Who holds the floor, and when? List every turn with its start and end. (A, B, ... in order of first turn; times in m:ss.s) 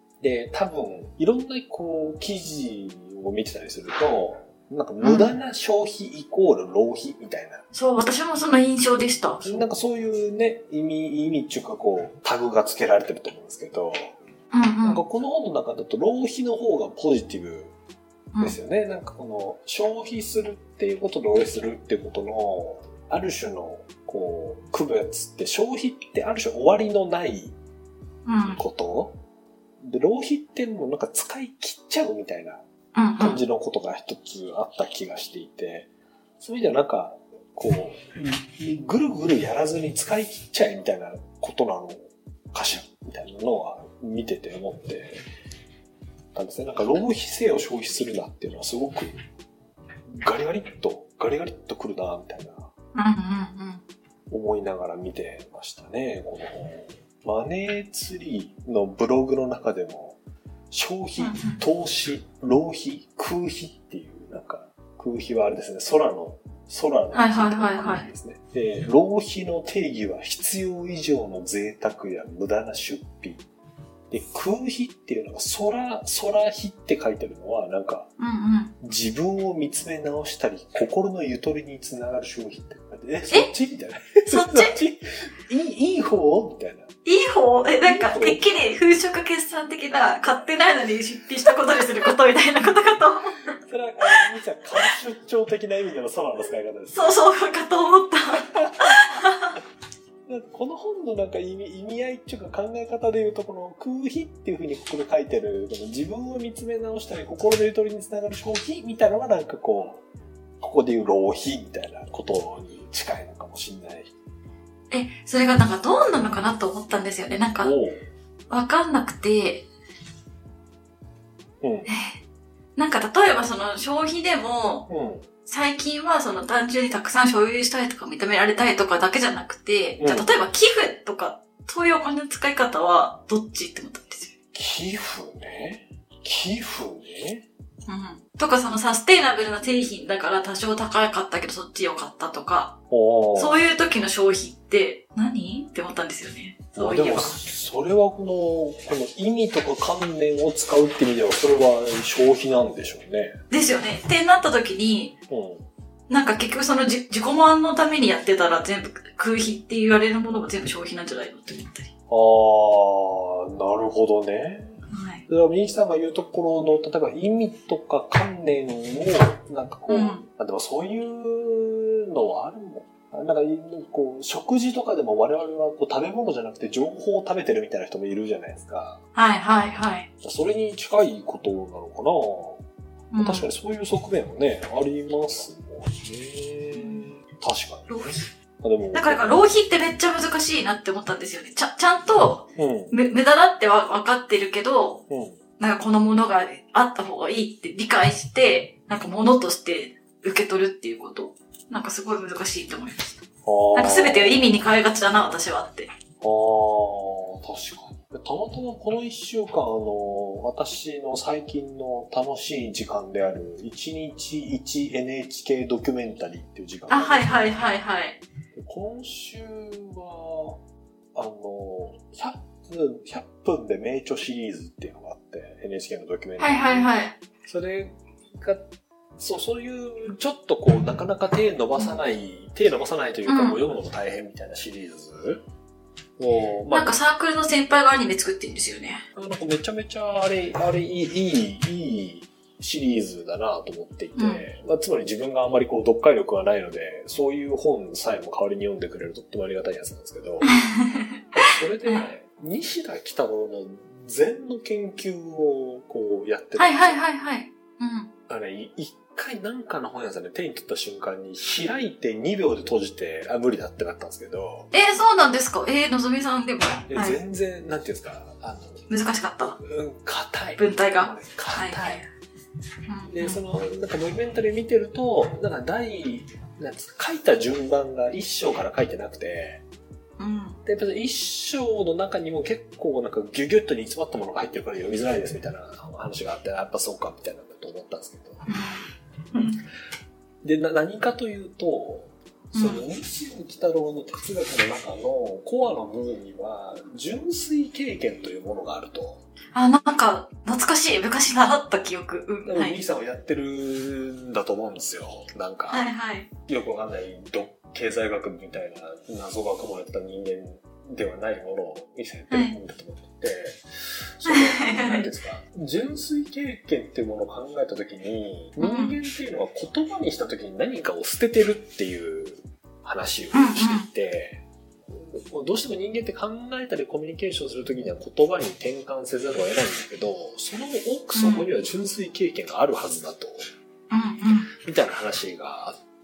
0:00.2-0:07.6 A
0:05.0-0:05.3 B
0:07.7-0:09.6 B
0:09.4-0:14.1 A
0:14.5-0:15.0 B
0:14.8-0:17.7 A
0:18.4-0:27.6 A
0:28.3-0:28.6 B
0:28.4-0:29.2 A
0:29.8-0:32.6 A
0:33.0-0:33.4 B
0:33.2-0:35.9 A
0:36.4-0:42.0 A
0:42.5-0:45.2 A
0:46.3-0:49.2 A
0:50.1-0:52.7 A
0:53.0-0:53.8 B
0:54.3-1:00.2 A
1:00.7-1:13.4 A
1:01.2-1:01.6 B
1:07.1-1:08.1 B
1:14.1-1:18.1 A
1:18.2-1:18.7 B
1:18.8-1:26.9 A
1:24.3-1:24.8 B
1:27.0-1:33.6 B
1:27.8-1:28.4 A
1:33.6-1:37.2 A
1:36.9-1:39.6 B
1:38.4-1:39.1 A
1:40.3-1:50.0 A
1:50.6-1:54.1 A
1:54.9-1:57.7 B
1:57.6-1:58.0 A
1:58.5-1:59.7 B
2:01.6-2:01.9 A
2:01.9-2:02.2 B
2:02.8-2:04.9 B
2:04.9-2:05.3 A
2:05.5-2:14.3 B
2:10.0-2:10.3 A
2:14.5-2:17.5 A
2:17.9-2:22.8 B
2:22.9-2:23.6 A
2:23.4-2:27.4 B
2:26.8-2:33.4 A
2:33.5-2:35.2 B
2:35.3-2:35.7 A
2:36.1-2:41.9 B
2:42.1-2:59.0 A
2:44.9-2:45.3 B
2:49.9-2:50.3 B
2:59.2-3:00.1 B
3:00.2-3:02.6 A
3:03.1-3:03.5 B
3:03.2-3:09.4 A
3:06.7-3:07.1 B
3:07.9-3:08.3 B
3:08.9-3:15.0 B
3:12.6-3:13.0 A
3:15.1-3:15.4 A
3:15.6-3:25.9 B
3:23.4-3:24.6 A
3:26.2-3:37.6 A
3:36.9-3:38.2 B
3:38.6-3:40.6 A
3:41.2-3:46.9 A
3:46.4-3:47.2 B
3:47.4-3:48.7 A
3:49.2-3:55.4 A
3:53.3-3:53.6 B
3:56.2-3:57.0 A
3:56.7-3:59.0 B
3:59.2-4:10.5 A
4:04.2-4:04.4 B
4:10.4-4:11.2 B
4:11.3-4:17.0 A
4:16.6-4:18.1 B
4:18.3-4:24.7 A
4:24.7-4:27.2 B
4:26.9-4:28.9 A
4:28.9-4:29.6 B
4:29.6-4:32.0 A
4:30.6-4:32.1 B
4:32.9-4:33.4 B
4:33.1-4:39.6 A
4:40.2-4:40.6 B
4:40.6-4:48.5 A
4:48.5-4:48.8 B
4:49.3-4:49.6 B
4:50.4-4:59.2 A
4:52.6-4:52.8 B
4:59.6-5:02.8 B
5:02.4-5:05.9 A
5:05.7-5:06.3 B
5:06.5-5:33.5 A
5:12.3-5:12.6 B
5:14.3-5:15.1 B
5:18.6-5:18.9 B
5:23.3-5:23.9 B
5:31.2-5:31.5 B
5:33.9-5:34.5 B
5:34.5-5:35.8 A